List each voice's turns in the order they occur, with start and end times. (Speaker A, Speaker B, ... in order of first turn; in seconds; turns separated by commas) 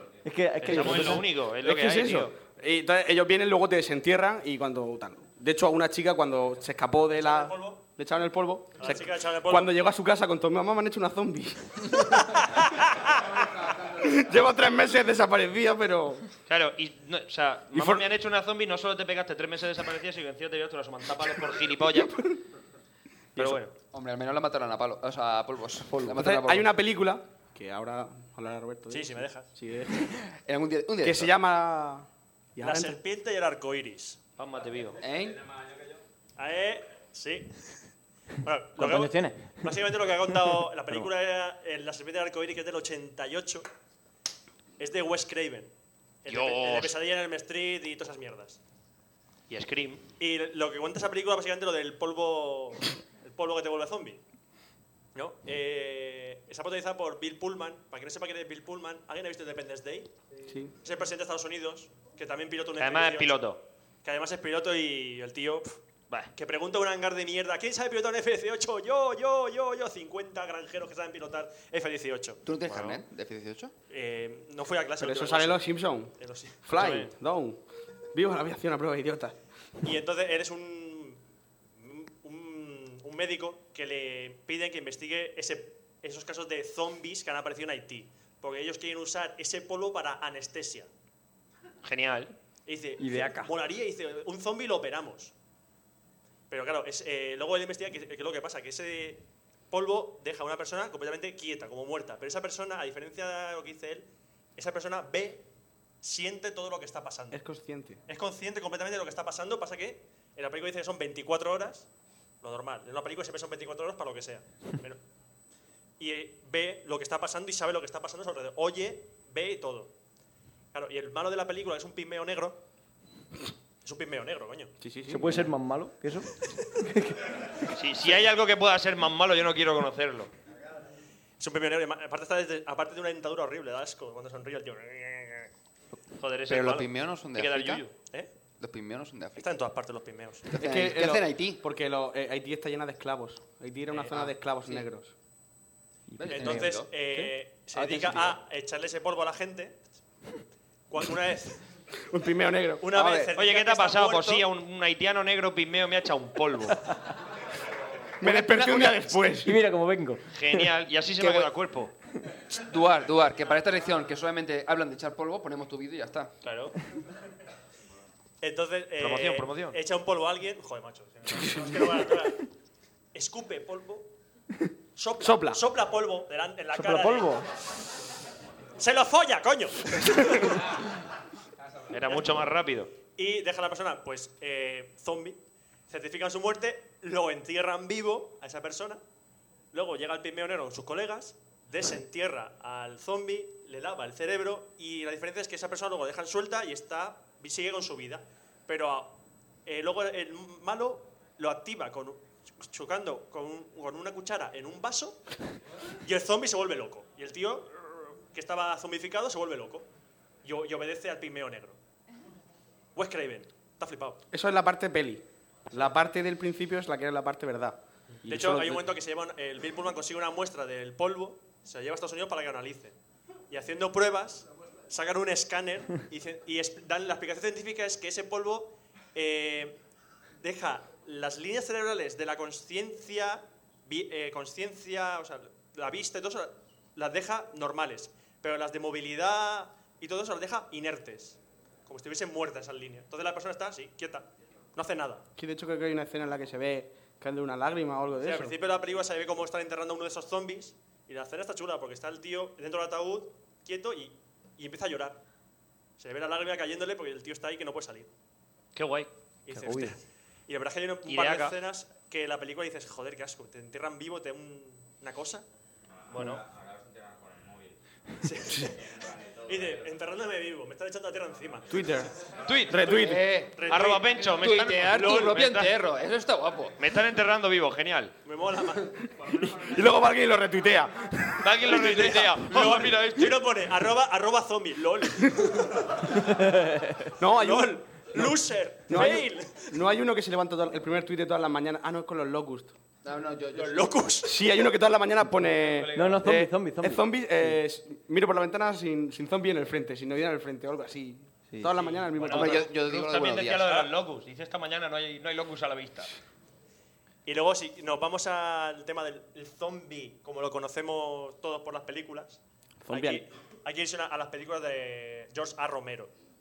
Speaker A: 0.2-1.2, Speaker B: 0.6-2.3, Speaker C: 0.8-12.2, Speaker D: 7.1-7.8, Speaker D: 8.8-9.7, Speaker C: 13.8-16.2, Speaker B: 16.5-22.4, Speaker C: 17.7-18.0, Speaker B: 23.4-23.7, Speaker E: 23.9-26.7, Speaker C: 26.0-30.1, Speaker D: 28.9-29.5, Speaker E: 30.1-31.3, Speaker C: 31.0-33.0, Speaker D: 32.6-34.2, Speaker B: 34.4-35.0, Speaker E: 35.0-35.4, Speaker D: 36.4-37.8, Speaker D: 38.4-43.7, Speaker A: 38.8-39.6, Speaker D: 44.8-45.7, Speaker D: 46.2-48.6, Speaker B: 46.3-46.9, Speaker B: 49.5-50.1, Speaker D: 50.2-54.2, Speaker D: 55.1-60.1, Speaker C: 60.5-60.7, Speaker D: 60.8-63.4, Speaker B: 62.8-63.6, Speaker D: 64.0-65.8, Speaker D: 66.3-72.4, Speaker E: 72.4-73.7, Speaker B: 72.7-73.0, Speaker D: 73.9-75.6, Speaker C: 75.0-77.6, Speaker D: 76.2-77.1, Speaker B: 76.7-77.1, Speaker C: 78.1-79.3, Speaker D: 79.8-81.2, Speaker D: 81.8-90.9, Speaker B: 91.8-92.3, Speaker D: 92.7-95.3, Speaker A: 93.0-93.5, Speaker D: 96.5-105.5, Speaker D: 106.0-107.4, Speaker C: 107.3-108.0, Speaker D: 108.1-111.9, Speaker D: 112.4-115.0, Speaker D: 116.0-119.9, Speaker D: 120.7-122.6, Speaker D: 123.8-124.7, Speaker C: 124.8-125.3, Speaker A: 125.1-127.1, Speaker B: 127.7-130.3, Speaker D: 131.4-135.5, Speaker B: 136.2-137.9, Speaker E: 136.5-137.8, Speaker E: 138.6-139.5, Speaker D: 139.4-140.4, Speaker E: 140.5-141.6, Speaker C: 140.6-145.1, Speaker E: 144.1-144.8, Speaker A: 146.1-146.4, Speaker E: 146.2-146.9, Speaker D: 146.3-149.8, Speaker E: 147.7-148.3, Speaker D: 150.9-151.6, Speaker C: 152.1-153.3, Speaker D: 152.8-154.4, Speaker E: 153.0-153.3, Speaker B: 153.3-156.8, Speaker C: 158.2-159.5, Speaker E: 158.2-159.2, Speaker A: 159.4-160.2, Speaker B: 160.3-161.9, Speaker E: 161.2-161.5, Speaker E: 162.5-166.3, Speaker B: 166.4-166.7, Speaker D: 168.4-172.4, Speaker B: 169.0-169.8, Speaker D: 173.1-174.1, Speaker D: 174.9-177.4, Speaker C: 175.2-175.6, Speaker A: 176.7-177.4, Speaker D: 178.8-180.6, Speaker B: 181.9-182.9, Speaker D: 183.2-189.0, Speaker D: 189.7-205.2, Speaker D: 206.0-209.9, Speaker D: 210.4-211.8, Speaker D: 212.9-214.2, Speaker C: 214.3-218.9, Speaker D: 218.2-222.9, Speaker D: 223.5-229.8, Speaker D: 230.4-245.2, Speaker C: 245.4-248.6, Speaker D: 248.2-255.2, Speaker D: 256.0-258.1, Speaker B: 258.7-259.1, Speaker D: 259.4-265.4, Speaker A: 259.5-260.0, Speaker B: 261.1-261.6, Speaker B: 266.1-266.5, Speaker D: 268.2-268.9, Speaker D: 269.4-271.8, Speaker C: 271.7-272.1, Speaker B: 272.4-273.0, Speaker C: 272.7-273.3, Speaker E: 272.9-273.6, Speaker D: 273.5-274.2, Speaker B: 273.7-275.7, Speaker E: 274.2-276.7, Speaker D: 275.0-275.3, Speaker B: 276.8-278.1, Speaker D: 278.2-278.9, Speaker C: 279.5-280.9, Speaker B: 281.4-283.4, Speaker D: 281.7-286.0, Speaker A: 286.3-286.9, Speaker C: 287.2-292.7, Speaker D: 287.3-289.7, Speaker E: 293.0-293.9, Speaker D: 293.5-294.3, Speaker C: 294.2-302.7, Speaker B: 295.5-296.2, Speaker A: 295.9-297.6, Speaker B: 301.8-306.1, Speaker E: 302.3-303.9, Speaker D: 307.2-316.1, Speaker C: 312.8-313.2